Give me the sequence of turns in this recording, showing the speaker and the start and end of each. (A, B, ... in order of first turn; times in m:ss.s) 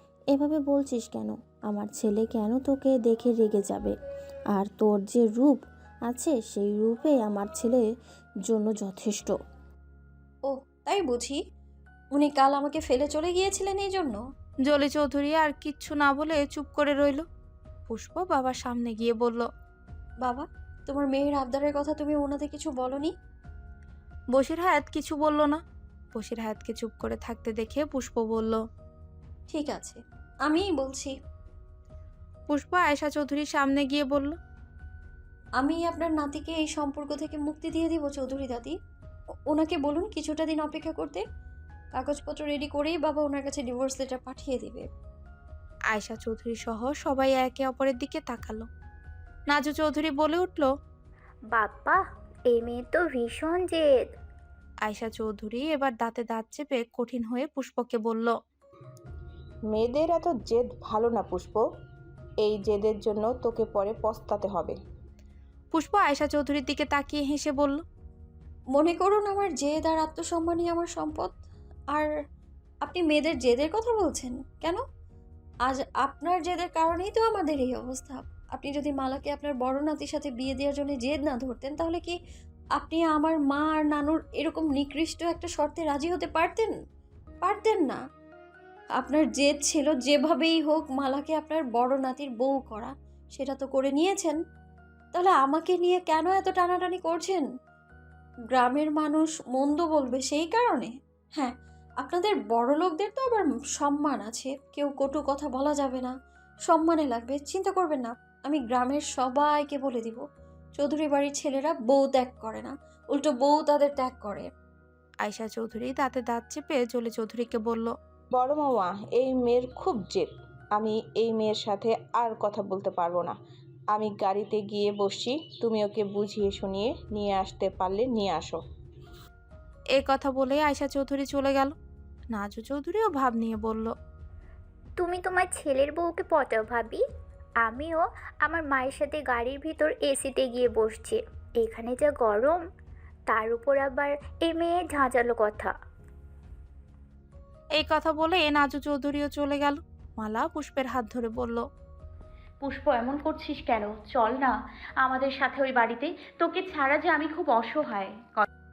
0:00.3-0:03.9 A
0:04.5-0:07.8 A
0:08.5-0:09.3 A
0:10.4-0:11.4 B
0:12.1-0:14.2 B
0:14.7-0:17.2 C
0:17.9-0:19.5 C
0:20.2-0:23.1 B
0:24.3-0:25.6 C
0:26.1-0:28.6 C
0:29.5-0:31.1 B
0:32.5-0:34.3 C
0:35.6-0:38.7 B
0:39.5-0:41.2 B
0:41.9-0:44.8 B
0:45.9-0:48.7 C
0:49.5-0:50.7 C
0:51.5-0:54.0 D
0:54.8-0:58.3 C
0:59.7-1:01.6 E
1:02.4-1:04.8 E
1:05.7-1:07.8 C
1:08.7-1:11.4 B
1:12.8-1:14.8 B
1:15.6-1:22.2 B
1:22.8-1:26.7 B
1:27.4-1:28.0 B
1:29.0-1:34.4 B
1:35.1-1:37.4 B
1:38.5-1:46.1 B
1:46.6-1:50.2 B
1:50.8-1:54.5 B
1:55.2-1:57.9 C
1:58.3-2:03.4 E
2:03.9-2:08.6 E
2:10.0-2:11.7 C
2:12.3-2:13.9 C
2:15.0-2:17.0 D
2:17.6-2:22.6 D
2:23.3-2:25.7 D
2:27.8-2:31.6 C
2:32.6-2:38.4 F